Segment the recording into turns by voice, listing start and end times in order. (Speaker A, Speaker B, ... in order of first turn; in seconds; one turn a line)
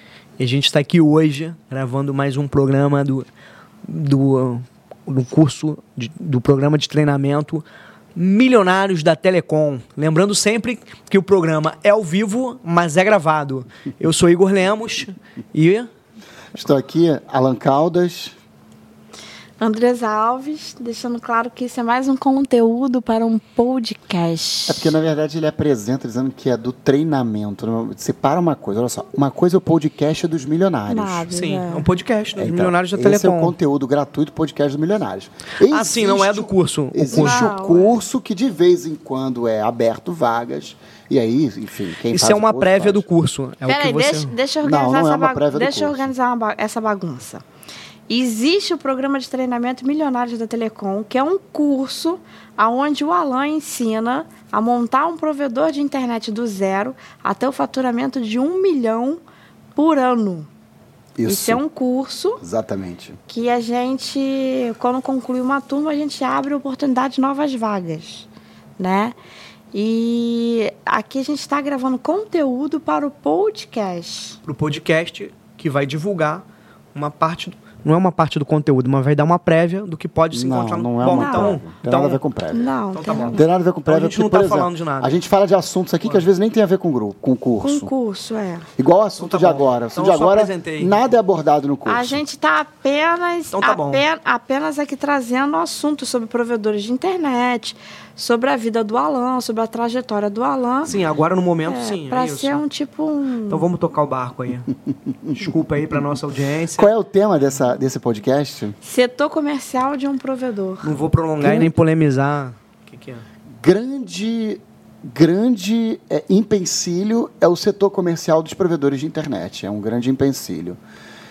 Speaker A: 0.4-3.3
Speaker A: 3.9-15.9
Speaker B: 16.6-18.4
Speaker C: 19.6-24.9
Speaker B: 24.7-31.3
Speaker C: 30.9-31.9
Speaker A: 31.3-33.6
Speaker B: 32.4-43.1
Speaker A: 35.6-37.5
Speaker C: 37.1-38.0
Speaker A: 42.1-44.4
Speaker C: 43.7-47.4
Speaker B: 44.6-46.1
Speaker C: 48.1-59.2
Speaker C: 59.8-60.5
Speaker B: 61.2-61.6
Speaker C: 61.3-62.4
Speaker B: 62.4-63.2
Speaker C: 63.3-68.3
Speaker C: 68.8-69.2
Speaker C: 69.7-74.4
Speaker A: 74.5-76.4
Speaker A: 77.0-82.2
Speaker B: 80.3-87.9
Speaker C: 81.1-81.6
Speaker C: 82.5-83.5
Speaker A: 82.9-85.2
Speaker C: 87.6-88.7
Speaker B: 88.8-92.2
Speaker A: 89.2-91.1
Speaker C: 91.9-100.9
Speaker A: 93.5-94.0
Speaker A: 100.8-102.6
Speaker C: 101.7-103.7
Speaker A: 103.5-104.7
Speaker A: 105.3-106.9
Speaker B: 106.8-108.8
Speaker C: 108.8-110.9
Speaker A: 110.8-113.3
Speaker B: 111.4-111.7
Speaker B: 113.6-120.8